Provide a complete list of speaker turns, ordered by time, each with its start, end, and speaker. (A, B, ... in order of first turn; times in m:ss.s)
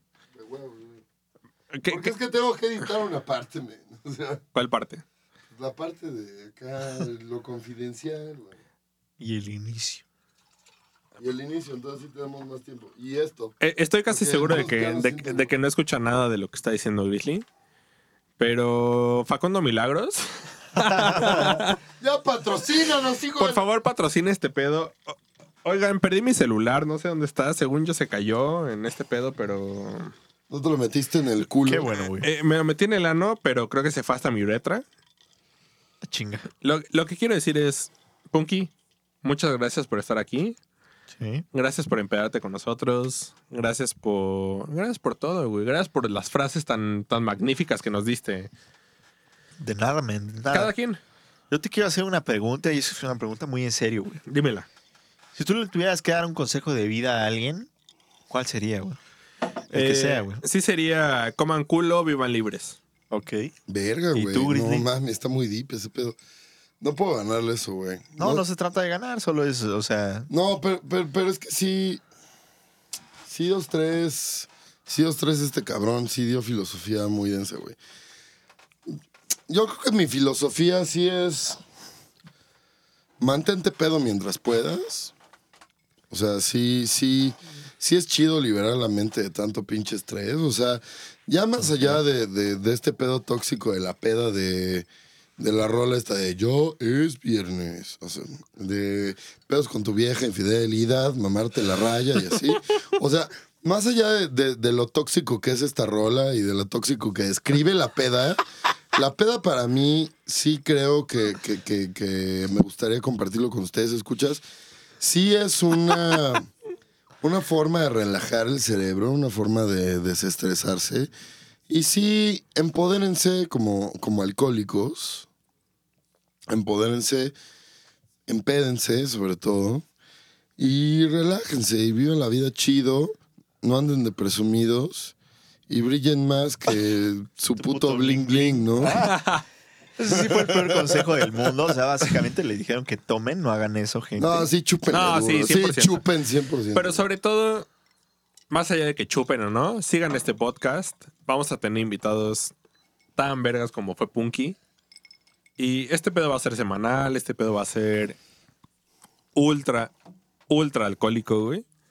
0:00.4-0:01.0 A
0:01.7-0:02.1 B
0:01.9-0:04.4 A
0:04.6-0:05.0 B
0:05.5-0:08.6 A
0:09.2-0:10.0 C
0:11.2-0:13.6 A
0:13.6-0:17.4 B
0:14.1-0:15.5 A
0:18.4-0:21.8 B
0:20.8-0:21.6 C
0:22.0-0:23.6 A
0:23.4-0:30.1 B
0:30.5-0:31.9 A
0:31.6-0:32.3 C
0:32.0-0:34.8 B
0:36.0-0:36.5 C
0:36.6-0:38.7 B
0:39.2-0:40.6 B
0:41.2-0:41.5 C
0:41.5-0:48.5 B
0:49.6-0:50.7 C
0:50.5-0:51.0 B
0:51.5-0:54.2 C
0:54.3-0:54.7 B
0:55.4-0:57.7 C
0:58.3-0:59.0 C
0:59.7-1:00.4 C
0:59.7-1:02.8 B
1:03.1-1:03.5 C
1:03.7-1:06.2 A
1:04.2-1:04.9 C
1:06.8-1:08.4 A
1:08.2-1:10.3 C
1:10.3-1:12.0 A
1:13.2-1:17.8 A
1:19.5-1:21.6 A
1:23.2-1:25.1 A
1:26.1-1:34.9 A
1:35.4-1:48.4 A
1:48.9-1:54.4 A
1:55.0-1:56.5 A
1:57.2-2:01.1 A
2:01.7-2:05.3 A
2:06.5-2:07.4 A
2:08.3-2:09.8 A
2:10.6-2:15.2 A
2:15.7-2:19.0 A
2:17.6-2:19.2 C
2:18.9-2:19.4 B
2:20.0-2:24.5 C
2:20.1-2:21.8 A
2:24.2-2:27.0 A
2:24.9-2:26.0 B
2:26.7-2:27.7 B
2:28.5-2:32.5 B
2:33.2-2:34.6 B
2:35.6-2:38.2 B
2:39.4-2:39.9 B
2:40.5-2:41.6 B